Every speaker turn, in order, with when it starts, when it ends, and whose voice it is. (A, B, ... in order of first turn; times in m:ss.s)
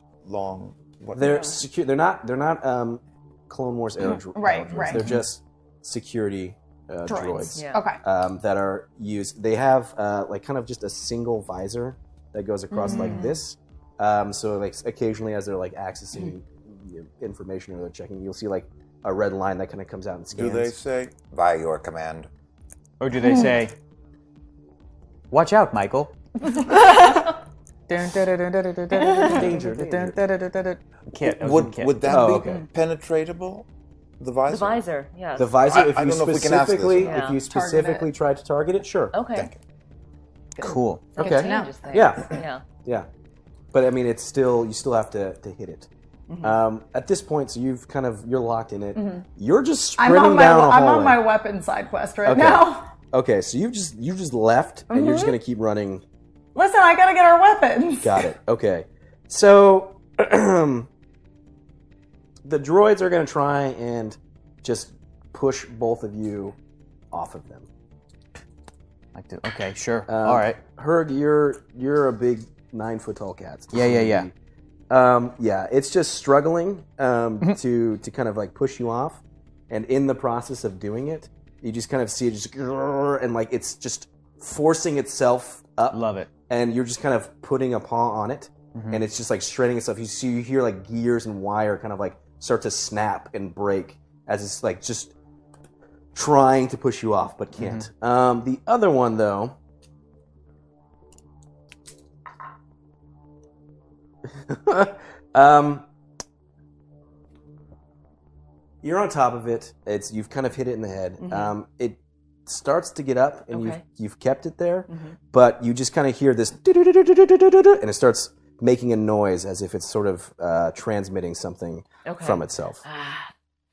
0:00.2-0:01.4 A
0:01.1-0:20.7 B
0:04.3-0:05.1 C
0:07.0-0:08.0 C
0:07.6-0:07.8 D
0:12.7-0:13.3 C
0:20.3-0:22.3 A
0:23.0-0:23.7 E
0:23.2-0:23.5 C
0:25.3-0:27.0 E
0:26.5-0:27.3 C
0:27.9-0:32.2 E
0:29.0-0:29.4 C
0:29.2-0:30.2 B
0:31.3-0:33.7 A
0:32.0-0:32.6 B
0:34.2-0:34.8 A
0:34.5-0:35.7 D
0:35.4-0:39.1 B
0:35.6-0:37.2 A
0:37.0-0:37.4 D
0:37.5-0:38.1 C
0:39.1-0:39.5 D
0:40.6-0:41.7 C
0:40.6-0:41.2 E
0:41.1-0:42.6 D
0:41.2-0:43.1 B
0:43.7-0:45.9 B
0:46.3-0:46.6 D
0:46.4-0:51.2 B
0:49.0-0:49.2 C
0:50.0-0:52.9 C
0:52.2-0:56.0 B
0:54.9-0:55.4 C
0:56.6-0:58.2 C
0:58.0-1:00.9 B
1:02.4-1:06.6 B
1:07.1-1:07.7 B
1:09.1-1:10.6 E
1:10.1-1:14.3 B
1:13.7-1:14.3 E
1:14.9-1:35.1 B
1:25.9-1:26.3 E
1:28.7-1:29.0 E
1:36.1-1:39.6 B
1:37.6-1:37.9 E
1:44.3-1:45.8 B
1:48.8-2:02.8 B
1:51.2-1:51.5 D
1:53.5-1:53.8 D
1:54.9-1:55.2 D
2:02.0-2:03.3 D